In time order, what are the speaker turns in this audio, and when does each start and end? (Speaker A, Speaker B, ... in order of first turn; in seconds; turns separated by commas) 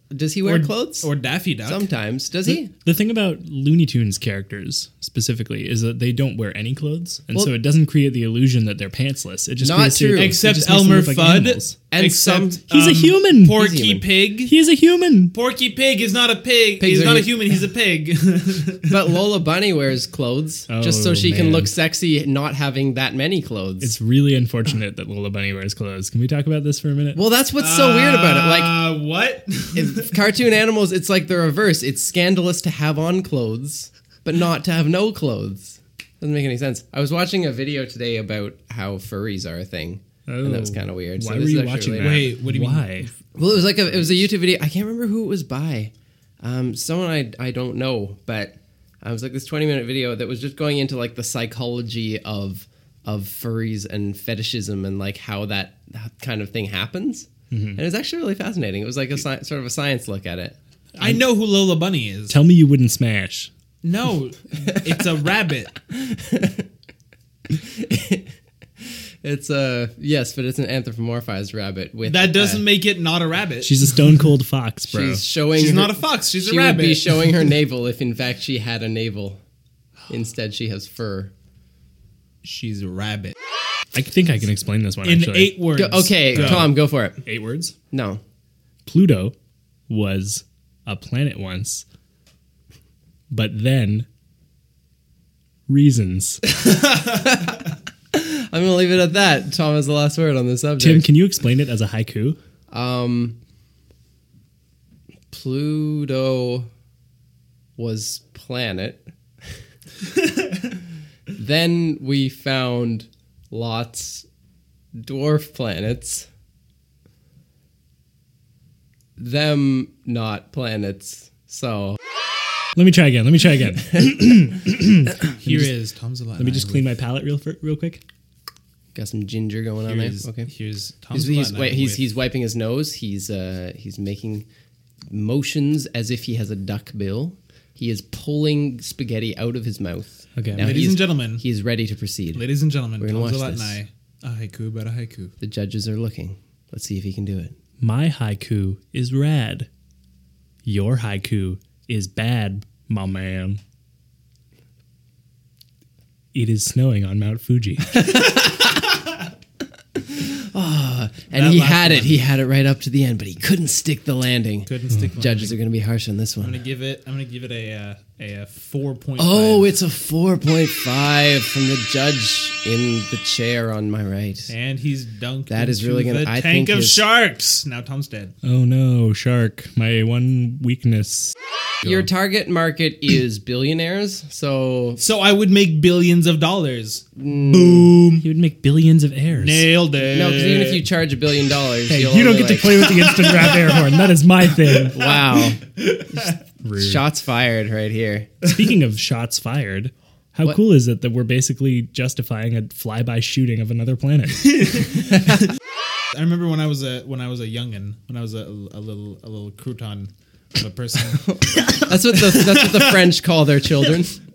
Speaker A: 0.1-1.1, Speaker B: 0.4-1.9, Speaker A: 1.6-2.7, Speaker C: 2.8-11.8, Speaker A: 9.6-10.4, Speaker B: 10.2-14.5, Speaker A: 11.9-12.6, Speaker C: 12.7-13.6, Speaker A: 13.5-14.0, Speaker C: 14.4-15.3, Speaker B: 15.3-19.0, Speaker A: 16.8-17.5, Speaker A: 18.9-23.9, Speaker C: 20.7-21.7, Speaker C: 23.8-27.2, Speaker A: 27.1-28.9, Speaker B: 27.6-30.1, Speaker A: 29.7-42.3, Speaker C: 40.3-43.1, Speaker B: 42.0-43.1, Speaker A: 43.3-60.5, Speaker C: 57.5-57.8, Speaker C: 61.0-61.2, Speaker B: 61.0-62.4, Speaker C: 62.3-63.5, Speaker B: 63.8-65.7, Speaker A: 65.9-66.7, Speaker A: 67.5-68.3, Speaker A: 69.2-72.7, Speaker B: 72.0-73.8, Speaker C: 73.6-75.2, Speaker A: 74.9-79.4, Speaker B: 75.5-77.5, Speaker A: 80.1-81.3, Speaker B: 82.4-83.3, Speaker C: 83.9-85.6, Speaker B: 85.0-86.7, Speaker A: 85.7-87.2, Speaker C: 86.3-86.7, Speaker C: 87.2-87.7, Speaker A: 87.9-88.2, Speaker C: 88.9-89.3, Speaker C: 89.9-91.8, Speaker C: 93.3-94.0, Speaker C: 95.7-96.4, Speaker A: 96.9-101.1, Speaker C: 100.8-102.4, Speaker A: 102.7-103.4, Speaker A: 105.3-106.7, Speaker A: 107.8-109.0, Speaker A: 111.3-114.2, Speaker A: 115.0-116.3, Speaker A: 119.2-122.0, Speaker C: 122.8-125.7, Speaker B: 125.4-126.9, Speaker C: 126.4-128.0, Speaker A: 128.9-130.5, Speaker B: 129.9-132.0, Speaker A: 131.1-134.4, Speaker A: 135.1-143.8, Speaker C: 140.3-140.7, Speaker B: 140.6-141.4, Speaker B: 142.3-145.3, Speaker A: 145.4-147.5, Speaker C: 147.8-149.7, Speaker C: 150.6-153.6, Speaker C: 156.3-158.0, Speaker A: 157.9-158.8, Speaker A: 159.9-166.6, Speaker B: 161.3-162.2, Speaker B: 164.7-165.6, Speaker B: 166.4-169.7, Speaker A: 169.2-174.5, Speaker B: 174.5-178.3, Speaker A: 175.5-177.0, Speaker C: 178.4-182.0, Speaker A: 181.8-185.0, Speaker B: 185.0-188.2, Speaker A: 187.2-187.9, Speaker C: 188.2-189.7, Speaker B: 189.3-190.9, Speaker A: 190.1-193.0, Speaker C: 191.9-195.0, Speaker B: 193.4-193.7, Speaker A: 194.9-195.6, Speaker B: 195.9-196.2, Speaker A: 196.1-198.3, Speaker C: 196.6-197.0, Speaker C: 198.4-204.8, Speaker B: 204.6-204.9, Speaker B: 206.1-212.9, Speaker A: 211.2-214.2